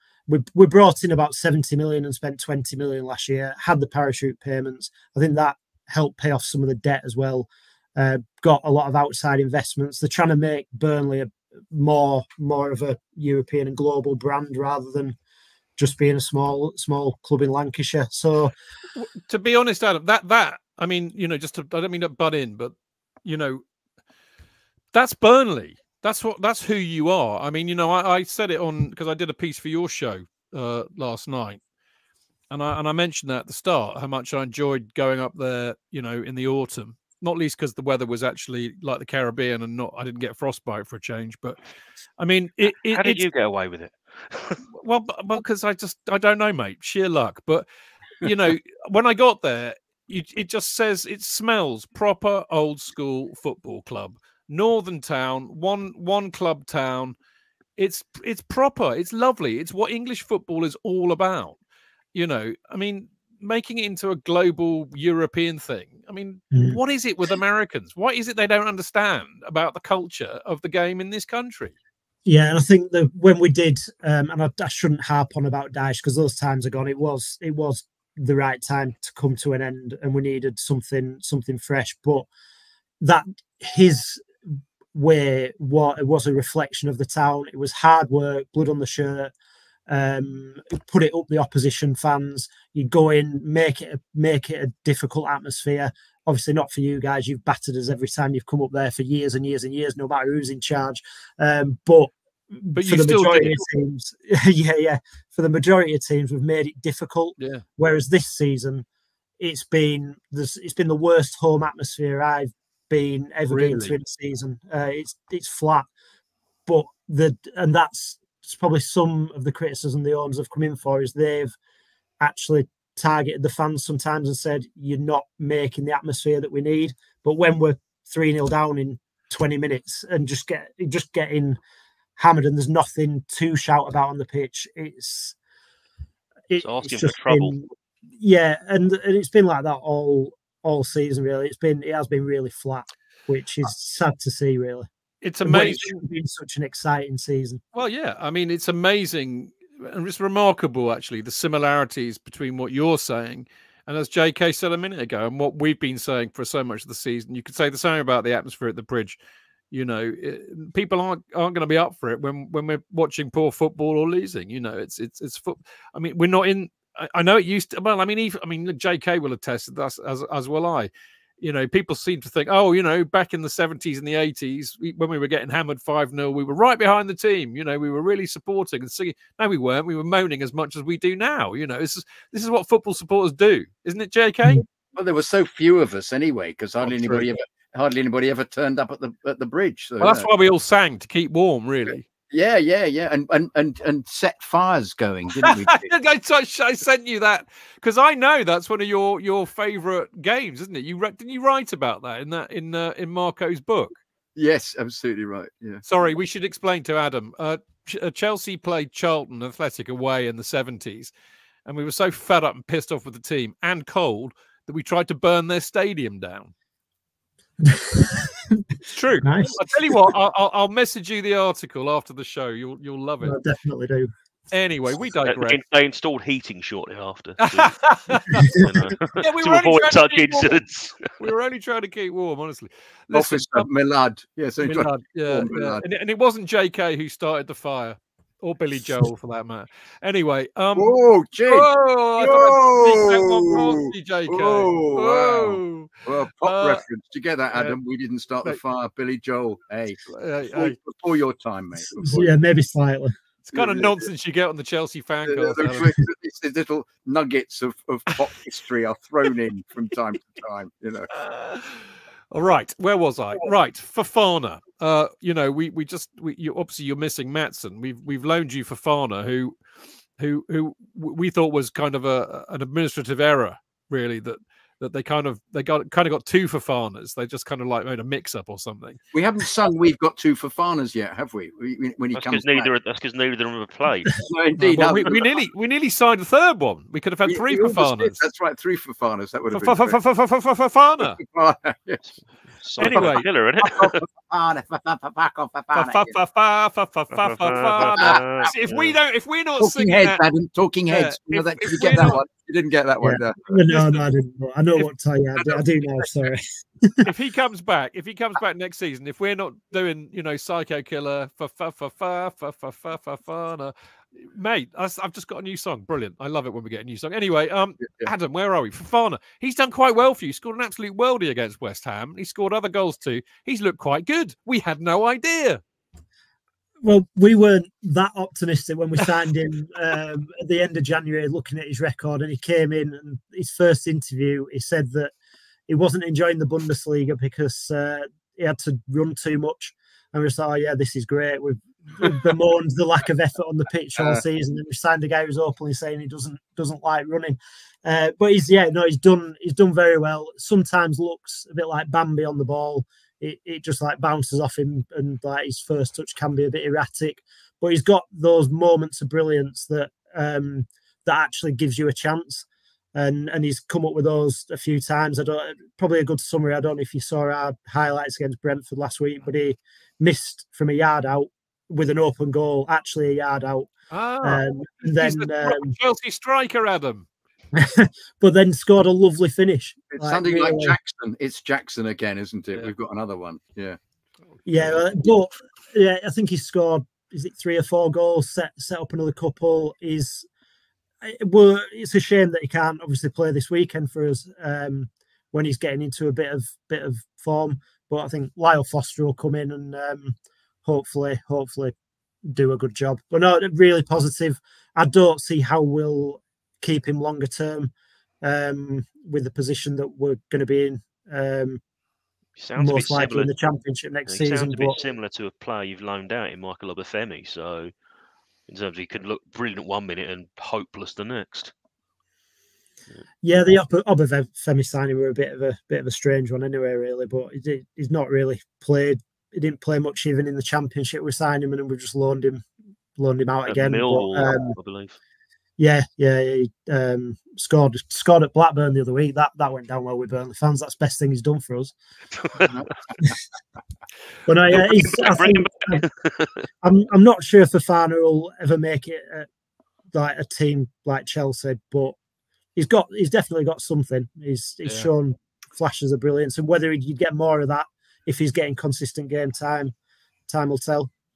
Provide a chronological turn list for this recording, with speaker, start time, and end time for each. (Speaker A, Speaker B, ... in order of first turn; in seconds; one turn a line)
Speaker A: 0.3-15.2
Speaker A: 15.8-18.5
Speaker B: 19.0-22.7
Speaker B: 23.2-23.6
Speaker B: 24.9-31.6
Speaker B: 32.5-41.6
Speaker B: 42.2-43.2
Speaker C: 42.9-44.6
Speaker B: 44.7-47.7
Speaker B: 48.2-57.1
Speaker B: 57.8-61.6
Speaker B: 62.1-71.8
Speaker A: 66.5-66.8
Speaker A: 72.3-82.3
Speaker A: 83.0-84.2
Speaker A: 84.9-89.3
Speaker A: 89.9-108.8
Speaker B: 102.8-103.7
Speaker B: 107.4-107.6
Speaker A: 109.4-115.9
Speaker B: 113.5-114.0
Speaker A: 116.7-121.5
Speaker A: 122.2-131.6
Speaker A: 132.2-135.3
Speaker A: 136.5-144.9
Speaker C: 136.6-137.6
Speaker B: 145.2-146.0
Speaker A: 145.4-147.6
Speaker B: 147.8-159.2
Speaker B: 159.7-184.7
Speaker D: 184.9-190.3
Speaker B: 186.8-187.3
Speaker B: 190.0-192.0
Speaker D: 192.3-195.9
Speaker B: 195.4-204.0
Speaker D: 204.4-205.8
Speaker B: 205.8-211.1
Speaker B: 211.7-216.5
Speaker A: 217.7-218.6
Speaker B: 218.9-223.4
Speaker A: 219.2-220.0
Speaker A: 223.2-224.1
Speaker B: 224.5-225.6
Speaker C: 225.3-227.8
Speaker B: 227.4-228.6
Speaker A: 228.4-228.7
Speaker C: 228.4-231.1
Speaker B: 229.1-230.6
Speaker B: 231.2-233.7
Speaker D: 233.1-235.8
Speaker B: 234.6-246.8
Speaker D: 240.8-252.3
Speaker B: 247.5-247.8
Speaker B: 250.1-250.8
Speaker A: 251.8-253.2
Speaker B: 253.5-255.9
Speaker D: 253.5-254.1
Speaker D: 255.3-261.1
Speaker B: 261.1-269.6
Speaker B: 270.2-279.0
Speaker D: 279.1-282.7
Speaker C: 282.1-284.2
Speaker D: 284.2-285.3
Speaker B: 284.6-288.2
Speaker D: 287.3-290.0
Speaker B: 289.5-291.2
Speaker D: 291.0-292.0
Speaker C: 292.6-294.0
Speaker B: 292.8-293.3
Speaker D: 292.8-296.2
Speaker B: 295.7-300.2
Speaker C: 297.1-298.9
Speaker D: 297.8-298.6
Speaker D: 299.6-304.0
Speaker B: 300.9-302.2
Speaker A: 303.0-307.1
Speaker B: 307.0-325.6
Speaker A: 326.8-335.1
Speaker A: 335.7-373.7
Speaker B: 373.9-377.1
Speaker A: 374.2-375.7
Speaker A: 377.6-380.8
Speaker D: 379.9-383.8
Speaker A: 384.5-390.2
Speaker A: 391.0-401.7
Speaker A: 402.3-407.7
Speaker A: 408.2-411.6
Speaker C: 412.4-413.3
Speaker A: 412.6-414.8
Speaker C: 414.1-417.7
Speaker C: 418.5-421.5
Speaker A: 423.2-434.6
Speaker C: 433.5-435.0
Speaker A: 435.6-441.7
Speaker D: 442.5-443.1
Speaker A: 444.3-445.9
Speaker C: 444.6-446.3
Speaker A: 446.6-449.3
Speaker A: 449.9-452.0
Speaker A: 452.6-459.7
Speaker B: 454.6-454.9
Speaker A: 460.3-460.9